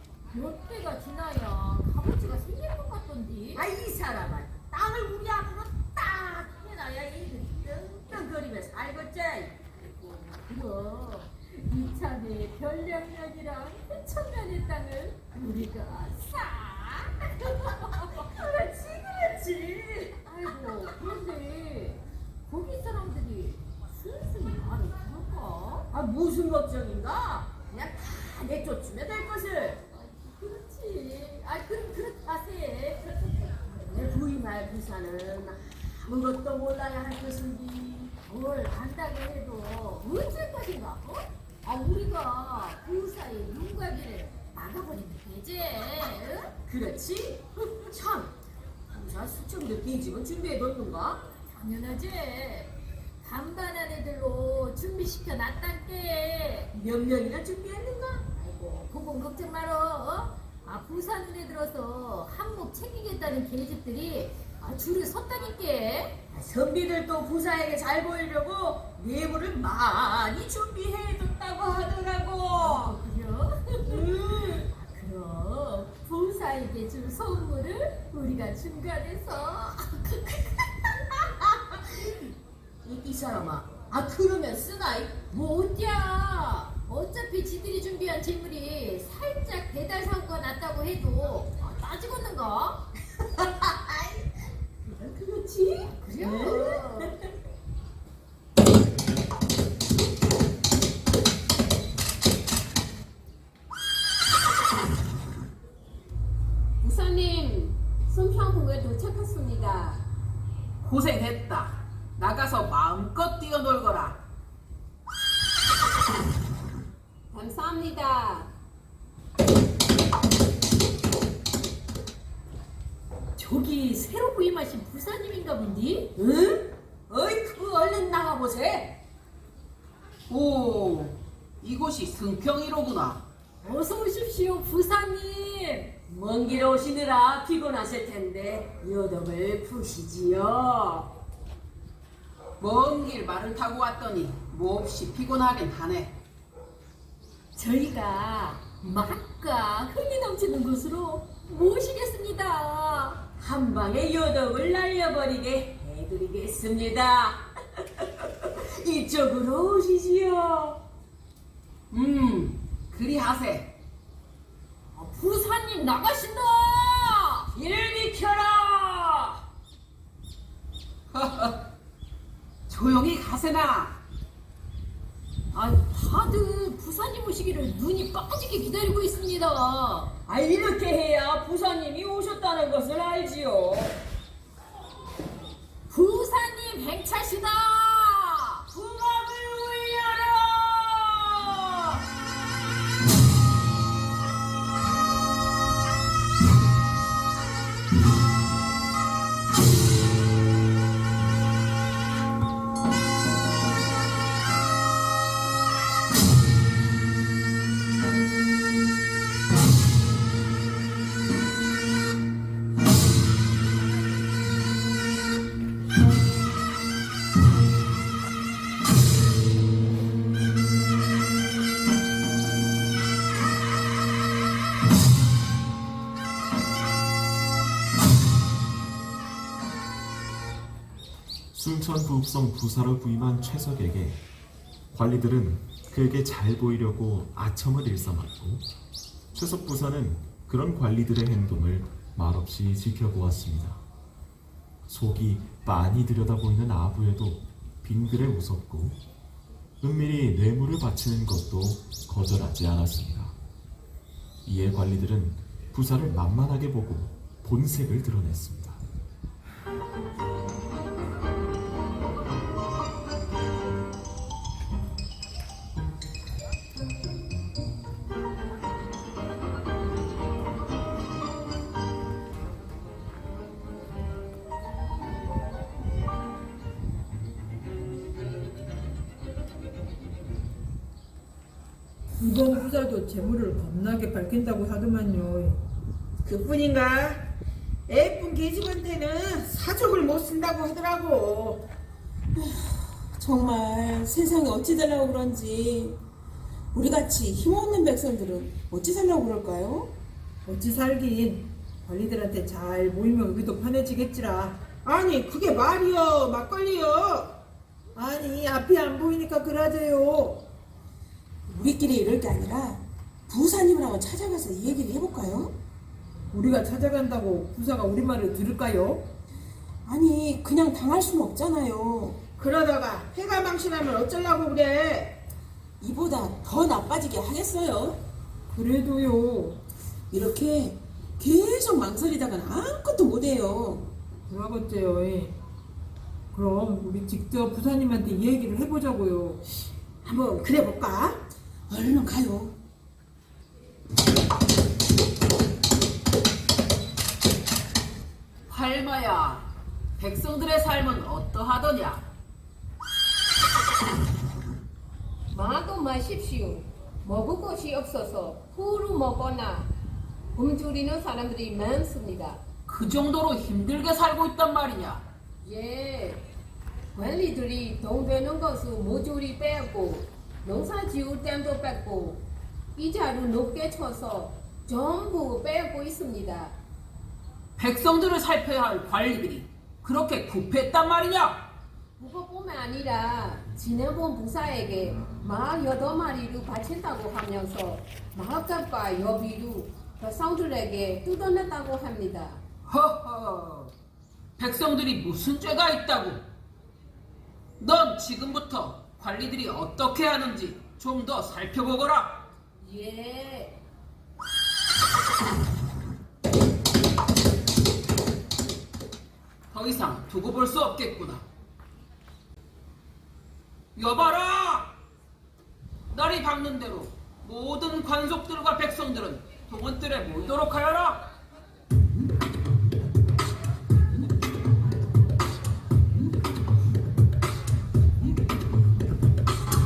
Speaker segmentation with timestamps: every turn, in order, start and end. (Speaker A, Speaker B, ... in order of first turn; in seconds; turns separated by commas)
Speaker A: 0.3-3.6, Speaker B: 3.5-9.6, Speaker A: 9.8-18.4, Speaker B: 18.3-20.1, Speaker A: 20.2-25.9, Speaker B: 25.9-29.8, Speaker A: 29.9-33.8, Speaker B: 33.7-39.9, Speaker A: 39.8-46.5, Speaker B: 44.4-45.0, Speaker B: 46.6-48.3, Speaker B: 48.9-51.3, Speaker A: 51.5-56.7, Speaker B: 56.7-58.8, Speaker A: 58.8-66.2, Speaker B: 66.3-73.0, Speaker A: 72.5-80.3, Speaker B: 73.9-74.5, Speaker B: 81.0-82.2, Speaker B: 82.8-85.2, Speaker A: 85.3-92.8, Speaker B: 93.7-94.1, Speaker B: 94.8-97.2, Speaker A: 96.1-97.1, Speaker C: 106.8-110.0, Speaker D: 110.8-114.2, Speaker C: 117.3-118.5, Speaker A: 123.4-126.1, Speaker B: 126.2-129.0, Speaker D: 130.3-133.2, Speaker A: 133.6-135.9, Speaker B: 136.1-141.1, Speaker D: 142.6-146.1, Speaker B: 147.6-151.2, Speaker A: 151.2-153.2, Speaker B: 153.3-160.8, Speaker D: 161.9-163.7, Speaker A: 165.8-166.3, Speaker B: 167.5-169.4, Speaker D: 171.1-171.6, Speaker D: 172.7-174.0, Speaker A: 175.5-180.1, Speaker B: 180.2-184.0, Speaker A: 185.9-188.6, Speaker B: 188.7-192.0, Speaker E: 231.5-234.2, Speaker E: 234.9-238.7, Speaker E: 239.3-243.8, Speaker E: 244.9-249.0, Speaker E: 249.8-253.3, Speaker E: 254.4-258.8, Speaker F: 282.2-285.6, Speaker G: 286.2-287.2, Speaker G: 287.9-291.7, Speaker H: 292.3-296.0, Speaker H: 296.7-299.9, Speaker F: 300.4-304.6, Speaker G: 304.8-307.3, Speaker F: 307.9-310.4, Speaker H: 311.5-315.5, Speaker F: 316.3-319.1, Speaker H: 319.9-322.2, Speaker G: 322.4-325.2, Speaker H: 325.8-328.0, Speaker F: 328.5-329.6, Speaker H: 330.1-333.9, Speaker F: 334.3-335.4, Speaker F: 336.3-339.4, Speaker H: 341.7-342.6, Speaker D: 348.5-352.0, Speaker C: 355.3-359.7, Speaker C: 360.4-362.4, Speaker D: 362.7-365.0, Speaker C: 365.4-366.2, Speaker C: 366.9-376.6, Speaker D: 377.6-381.4, Speaker C: 382.0-392.4, Speaker D: 392.6-393.7, Speaker D: 394.4-396.2, Speaker D: 397.6-402.2, Speaker C: 402.6-403.6, Speaker D: 409.5-411.2, Speaker D: 413.7-414.7, Speaker D: 415.9-421.0